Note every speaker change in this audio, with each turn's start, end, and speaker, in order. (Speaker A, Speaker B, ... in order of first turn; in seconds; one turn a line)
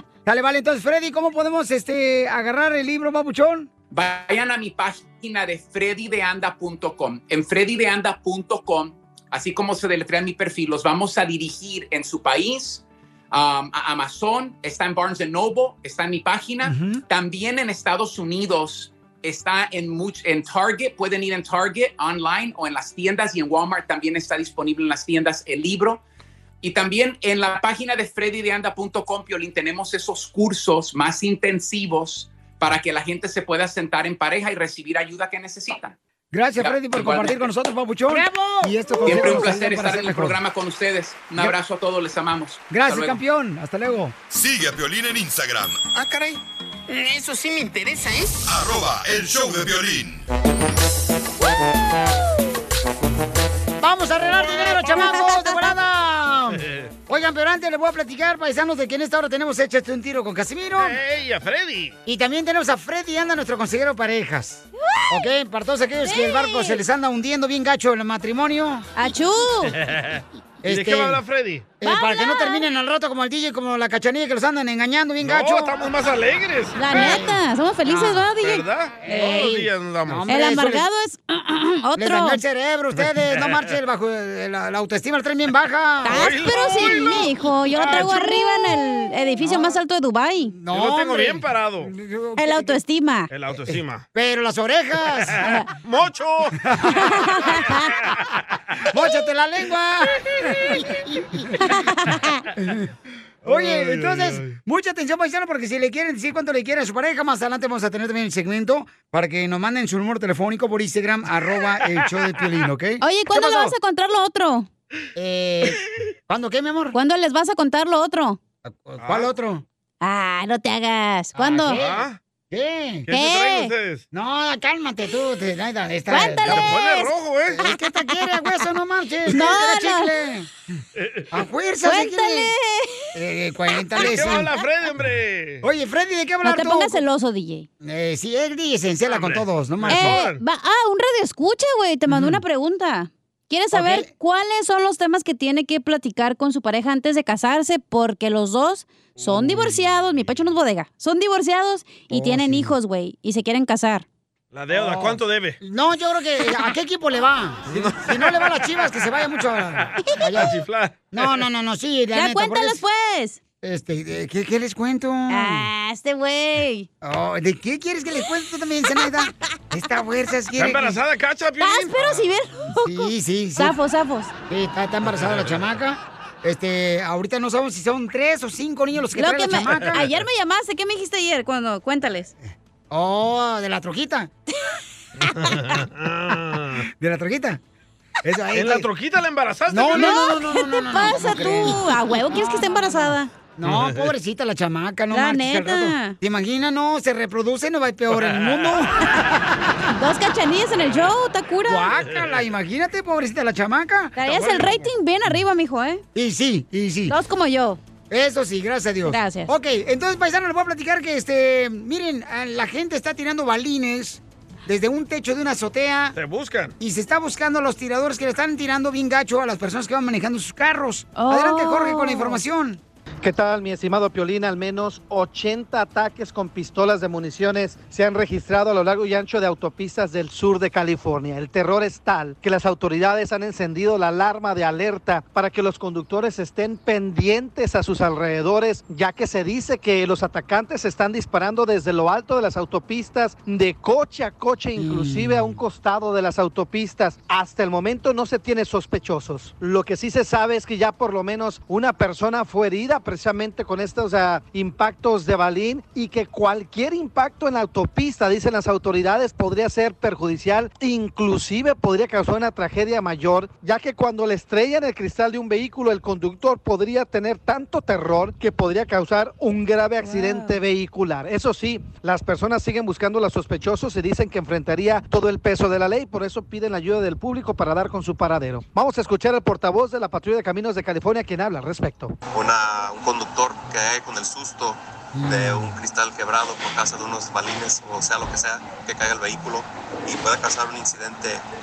Speaker A: 0.2-3.7
Speaker B: 3.9-26.0
Speaker A: 16.6-17.0
Speaker B: 26.6-36.0
Speaker A: 36.3-40.4
Speaker B: 36.5-37.5
Speaker C: 38.3-38.7
Speaker B: 39.0-43.2
Speaker A: 42.7-44.1
Speaker D: 44.3-45.8
Speaker C: 45.9-48.4
Speaker D: 48.4-50.2
Speaker A: 53.8-61.0
Speaker E: 54.7-55.7
Speaker F: 60.8-61.9
Speaker A: 62.0-68.9
Speaker E: 64.9-65.3
Speaker E: 66.0-66.8
Speaker E: 68.9-69.8
Speaker F: 69.8-71.8
Speaker A: 70.6-71.2
Speaker E: 71.8-72.7
Speaker A: 71.8-75.8
Speaker F: 75.2-77.2
Speaker E: 76.7-79.2
Speaker A: 76.9-77.4
Speaker A: 77.9-78.3
Speaker F: 78.4-80.4
Speaker A: 79.0-80.9
Speaker E: 80.3-82.4
Speaker A: 82.0-87.1
Speaker F: 83.3-83.7
Speaker E: 86.0-90.6
Speaker F: 86.1-87.2
Speaker A: 87.8-88.2
Speaker F: 87.8-88.1
Speaker A: 89.4-89.7
Speaker A: 90.5-92.8
Speaker F: 90.7-91.9
Speaker E: 92.4-93.3
Speaker F: 93.3-94.0
Speaker A: 93.5-95.5
Speaker F: 95.8-96.7
Speaker A: 96.7-97.0
Speaker E: 97.1-98.0
Speaker A: 98.9-101.8
Speaker E: 101.7-102.4
Speaker A: 102.6-102.9
Speaker F: 103.4-104.6
Speaker A: 103.4-113.7
Speaker E: 113.0-114.7
Speaker A: 115.2-117.0
Speaker E: 116.9-118.4
Speaker A: 118.6-119.6
Speaker F: 119.0-119.3
Speaker E: 120.0-121.9
Speaker A: 121.3-123.1
Speaker F: 121.7-122.2
Speaker F: 123.1-124.0
Speaker E: 123.1-123.7
Speaker A: 124.1-126.8
Speaker E: 126.1-127.1
Speaker F: 126.5-127.6
Speaker A: 127.5-130.5
Speaker E: 127.7-128.2
Speaker E: 129.3-130.1
Speaker F: 131.0-131.2
Speaker A: 131.3-132.5
Speaker E: 131.8-133.1
Speaker A: 133.1-134.5
Speaker F: 133.9-135.6
Speaker E: 134.0-134.7
Speaker A: 135.6-137.0
Speaker E: 136.4-137.7
Speaker A: 137.8-140.2
Speaker F: 139.1-140.4
Speaker E: 139.9-154.1
Speaker A: 142.1-142.4
Speaker A: 143.7-144.1
Speaker A: 152.1-152.7
Speaker F: 154.5-155.6
Speaker A: 154.7-160.5
Speaker F: 157.7-158.7
Speaker F: 159.8-161.4
Speaker A: 161.1-162.8
Speaker E: 162.1-163.4
Speaker A: 163.6-165.7
Speaker E: 165.3-166.9
Speaker A: 167.0-171.0
Speaker F: 170.6-172.2
Speaker E: 171.6-174.3
Speaker A: 172.7-173.8
Speaker A: 174.5-180.1
Speaker F: 175.2-175.5
Speaker E: 179.2-182.3
Speaker A: 182.9-184.3
Speaker F: 185.3-186.8
Speaker A: 187.0-187.6
Speaker A: 188.2-188.9
Speaker F: 188.5-190.3
Speaker A: 189.7-198.9
Speaker E: 189.8-193.3
Speaker F: 193.6-194.1
Speaker E: 195.1-196.2
Speaker E: 199.9-201.9
Speaker A: 201.7-204.6
Speaker E: 204.1-206.0
Speaker F: 204.2-204.8
Speaker A: 206.1-207.2
Speaker E: 207.1-207.8
Speaker A: 208.1-216.2
Speaker E: 209.1-209.5
Speaker F: 216.1-216.7
Speaker A: 216.8-222.8
Speaker E: 221.2-222.4
Speaker G: 223.2-282.1
Speaker A: 244.8-245.6
Speaker E: 270.0-270.6
Speaker H: 282.3-291.4
Speaker A: 285.1-285.7